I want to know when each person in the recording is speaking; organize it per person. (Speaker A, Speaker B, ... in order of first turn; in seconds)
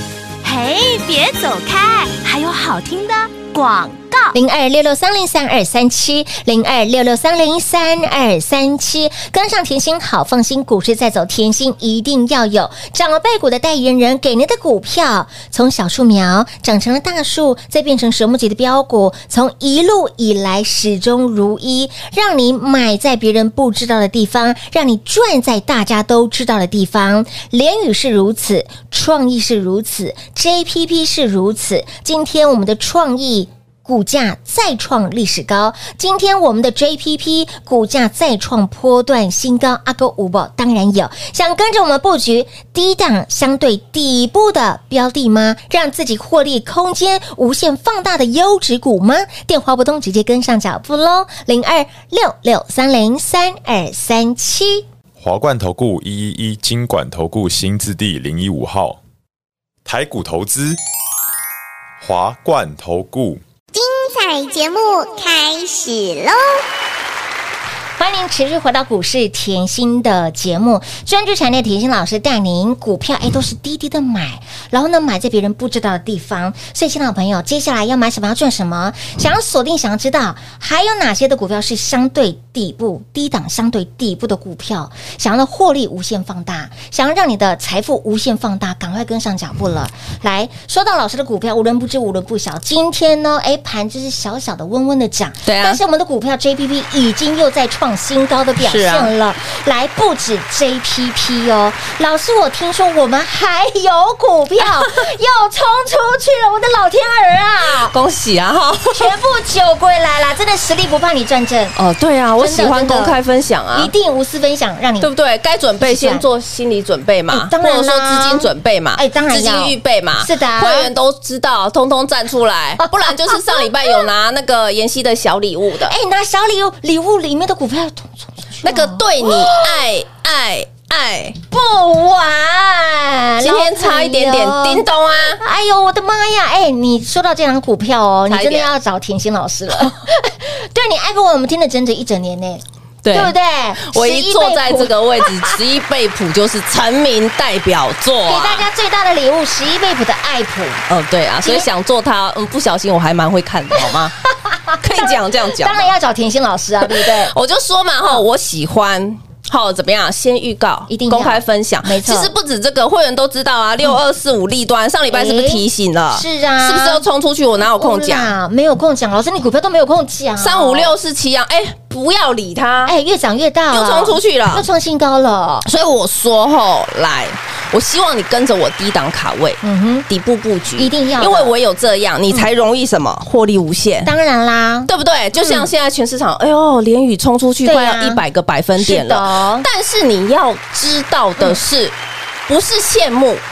Speaker A: 0.4-4.3
Speaker B: 4.3-54.9, 68.0-108.0, 108.9-111.8, 112.4-113.2, 113.7-115.1, 115.8-116.2, 117.3-120.9, 122.8-123.7, 125.9-129.9, 131.5-134.9, 135.4-145.6, 148.3-150.8, 151.4-151.7, 153.8-157.3, 160.9-162.3, 165.1-167.0, 167.7-170.9, 172.9-175.7, 179.6-180.1, 180.8-181.5, 184.1-185.7, 187.7-188.2, 188.8-189.7
Speaker C: 55.2-59.0, 59.9-60.8, 62.0-63.4
Speaker D: 63.7-66.6
Speaker E: 95.5-95.8, 98.6-99.1, 107.9-109.1, 111.8-113.9, 115.0-126.0, 128.6-131.4, 133.4-135.4, 138.3-138.7, 143.0-148.7, 150.9-154.1, 154.8-155.9, 156.8-168.3, 170.4-172.9, 173.7-174.7, 175.7-184.1, 184.9-191.9, 192.5-193.4